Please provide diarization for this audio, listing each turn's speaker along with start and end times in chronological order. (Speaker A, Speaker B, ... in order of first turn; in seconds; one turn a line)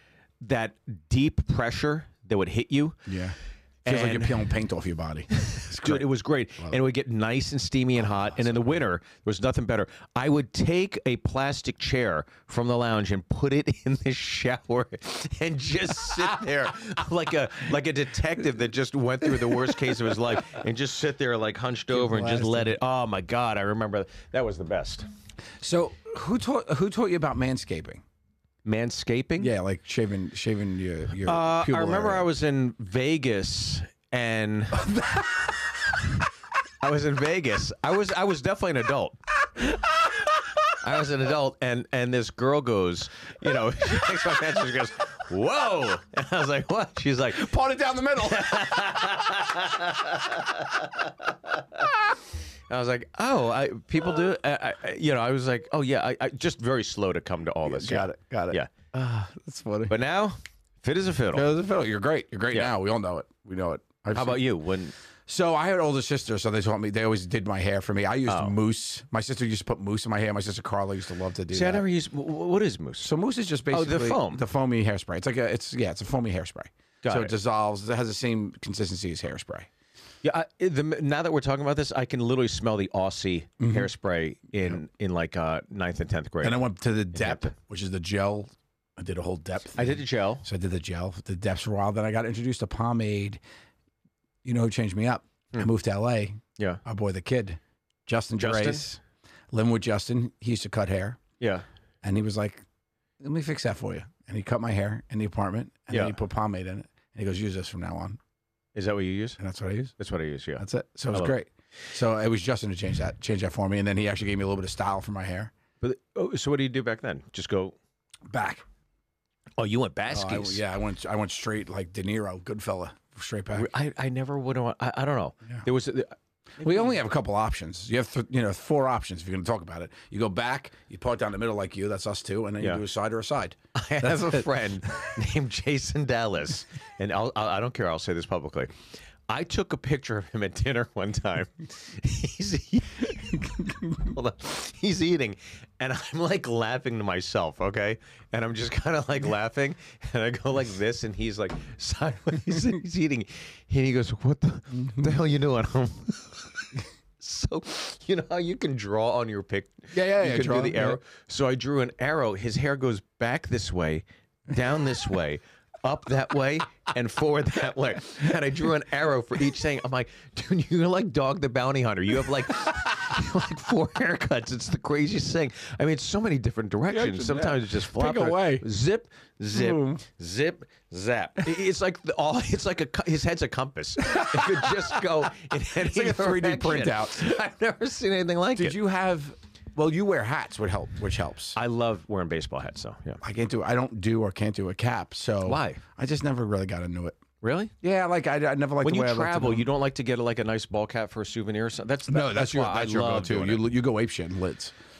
Speaker A: 0.4-3.0
Speaker B: 3.1-6.8
Speaker A: 3.9-4.4
Speaker A: 5.4-25.1
Speaker B: 8.0-8.8
Speaker B: 19.5-19.8
Speaker B: 21.9-22.8
Speaker B: 25.6-28.0
Speaker A: 28.6-29.5
Speaker B: 29.4-32.3
Speaker A: 31.2-34.9
Speaker B: 34.8-35.6
Speaker A: 36.8-39.2
Speaker A: 40.8-47.5
Speaker B: 47.3-49.3
Speaker A: 48.2-51.6
Speaker A: 52.7-58.7
Speaker B: 57.6-59.9
Speaker A: 59.9-61.5
Speaker B: 61.3-64.4
Speaker A: 64.1-65.0
Speaker B: 65.3-71.8
Speaker A: 68.3-68.5
Speaker A: 71.5-73.1
Speaker B: 73.0-79.7
Speaker A: 73.7-74.4
Speaker A: 77.0-77.3
Speaker A: 80.2-87.5
Speaker B: 83.6-83.9
Speaker B: 86.4-93.4
Speaker A: 89.8-90.5
Speaker B: 94.4-99.0
Speaker A: 98.4-98.8
Speaker B: 99.5-101.2
Speaker A: 101.4-101.7
Speaker B: 102.0-102.6
Speaker B: 103.2-108.2
Speaker A: 105.9-106.2
Speaker A: 108.8-109.4
Speaker B: 109.4-109.9
Speaker A: 110.0-111.3
Speaker B: 110.6-115.5
Speaker A: 115.8-117.8
Speaker B: 118.3-118.6
Speaker A: 119.6-120.6
Speaker B: 120.1-123.7
Speaker A: 123.5-126.9
Speaker B: 126.6-134.5
Speaker A: 133.8-138.7
Speaker A: 139.3-188.8
Speaker B: 143.3-144.0
Speaker B: 154.7-155.2
Speaker B: 159.9-161.0
Speaker B: 176.9-178.7
Speaker B: 179.5-180.0
Speaker B: 184.1-185.0
Speaker B: 185.7-187.3
Speaker B: 188.6-191.6
Speaker A: 191.6-193.2
Speaker B: 193.2-197.2
Speaker A: 195.4-195.8
Speaker A: 197.4-197.7
Speaker B: 197.8-199.7
Speaker A: 198.8-203.7
Speaker B: 202.1-204.8